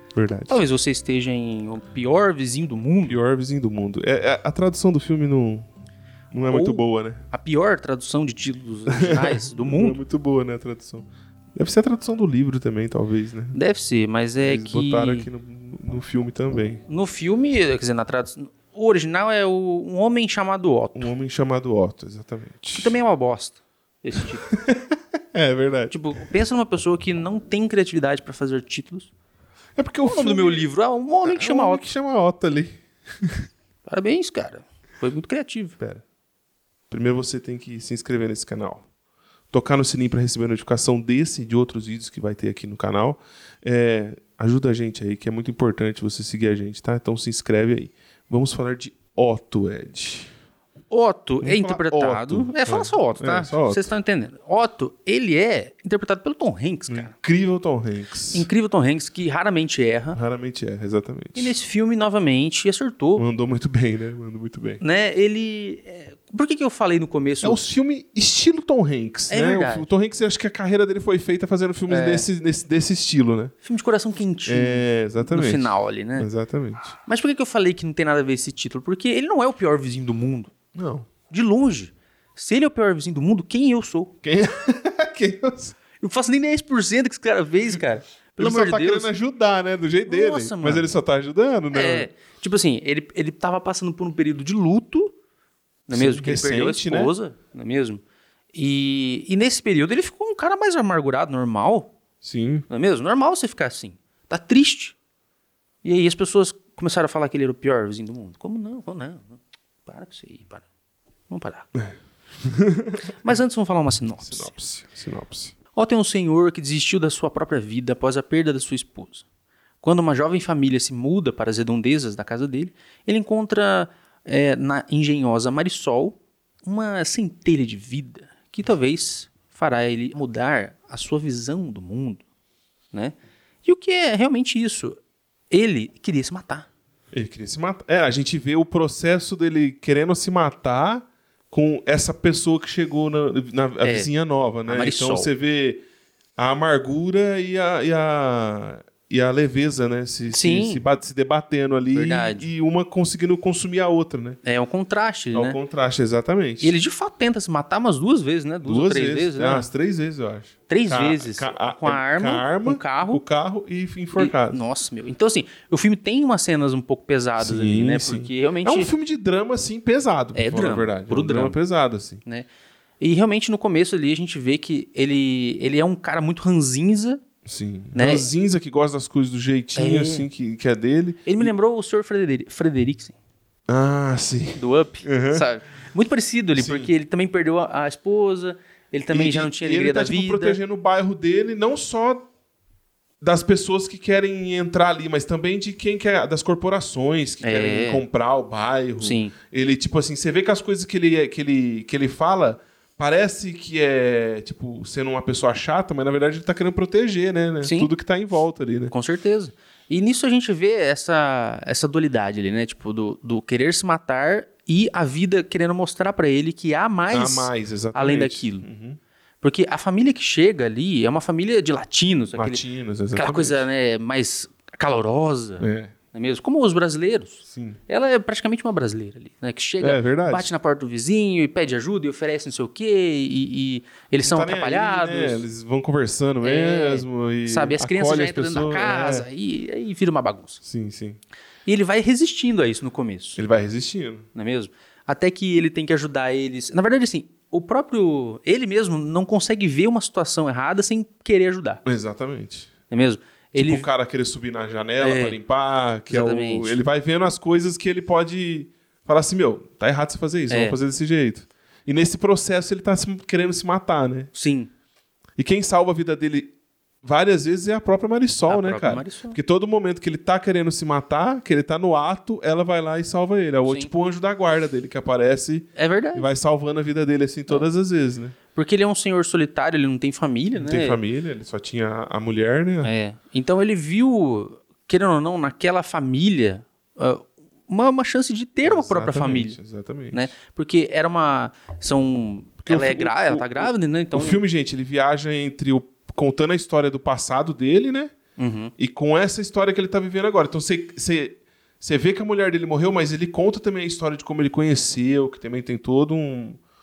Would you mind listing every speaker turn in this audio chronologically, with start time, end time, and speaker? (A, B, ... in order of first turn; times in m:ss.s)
0:00.1-0:00.6 A
0:00.5-0:03.2 B
0:03.1-0:05.7 A
0:06.3-0:07.2 A
0:06.5-0:10.0 B
0:08.9-0:13.6 A
0:13.5-0:15.3 B
0:14.4-0:16.8 A
0:16.9-0:21.1 B
0:21.0-0:23.0 A
0:22.7-0:24.5 B
0:24.5-0:26.0 A
0:25.9-0:29.1 B
0:29.8-0:30.7 A
0:30.0-0:31.9 B
0:31.2-0:33.5 A
0:33.9-0:35.8 B
0:36.9-0:38.8 A
0:39.5-0:50.3 A
0:50.9-0:57.1 B
0:51.4-0:53.9 A
0:56.9-0:58.5 A
0:58.3-1:00.2 B
1:00.1-1:01.5 A
1:01.4-1:03.2 B
1:03.2-1:04.8 A
1:04.8-1:07.7 B
1:07.4-1:13.5 A
1:09.3-1:09.9 B
1:11.9-1:12.3 B
1:13.6-1:16.3 B
1:14.5-1:16.9 A
1:17.0-1:20.5 B
1:20.8-1:21.1 A
1:21.3-1:24.1 B
1:24.2-1:25.8 A
1:26.0-1:29.1 B
1:28.4-1:32.1 A
1:30.1-1:30.9 B
1:31.7-1:35.1 B
1:35.9-1:38.0 B
1:35.9-1:37.1 A
1:38.5-1:41.9 B
1:42.2-1:42.7 A
1:42.7-1:45.0 B
1:45.8-1:50.6 B
1:51.3-1:51.7 B
1:51.8-1:53.1 A
1:53.2-1:54.5 B
1:54.2-1:55.5 A
1:55.7-1:59.2 B
1:59.8-2:12.2 B
2:12.9-2:15.0 B
2:15.5-2:16.7 B
2:17.1-2:25.8 A
2:23.8-2:24.1 B
2:24.6-2:25.3 B
2:26.4-2:34.4 A
2:30.3-2:30.8 B
2:31.9-2:32.5 B
2:34.4-2:35.6 B
2:35.3-2:36.8 A
2:36.6-2:39.7 B
2:38.6-2:44.6 A
2:40.7-2:43.2 B
2:44.1-2:48.9 B
2:47.4-2:52.2 A
2:50.3-2:51.6 B
2:53.0-2:57.2 B
2:57.4-3:01.5 A
2:57.9-2:58.3 B
2:59.8-3:00.3 B
3:01.2-3:03.2 B
3:03.7-3:05.4 A
3:04.6-3:10.6 B
3:06.6-3:06.9 A
3:09.1-3:12.3 A
3:13.2-3:28.9 A
3:17.4-3:18.0 B
3:19.0-3:19.3 B
3:27.6-3:27.9 B
3:28.9-3:38.7 B
3:37.1-3:39.0 A
3:39.4-3:42.6 B
3:42.3-3:43.7 A
3:43.1-3:55.4 B
3:45.6-3:45.9 A
3:47.5-3:47.8 A
3:49.8-3:50.5 A
3:54.2-3:59.3 A
3:56.4-4:00.6 B
4:00.6-4:01.2 A
4:01.7-4:03.4 B
4:03.4-4:04.2 A
4:04.3-4:11.8 B
4:11.8-4:12.7 A
4:12.9-4:13.9 B
4:13.6-4:24.3 A
4:15.0-4:15.4 B
4:16.1-4:16.8 B
4:20.5-4:20.8 B
4:24.3-4:24.7 B
4:25.4-4:26.5 A
4:27.0-4:38.4 A
4:28.5-4:29.4 B
4:33.7-4:33.9 B
4:35.8-4:36.3 B
4:38.5-4:41.0 B
4:40.6-4:42.9 A
4:42.8-4:49.6 B
4:48.6-4:50.3 A
4:50.1-4:54.4 B
4:52.7-4:58.1 A
4:58.4-4:58.7 B
4:58.8-5:06.6 A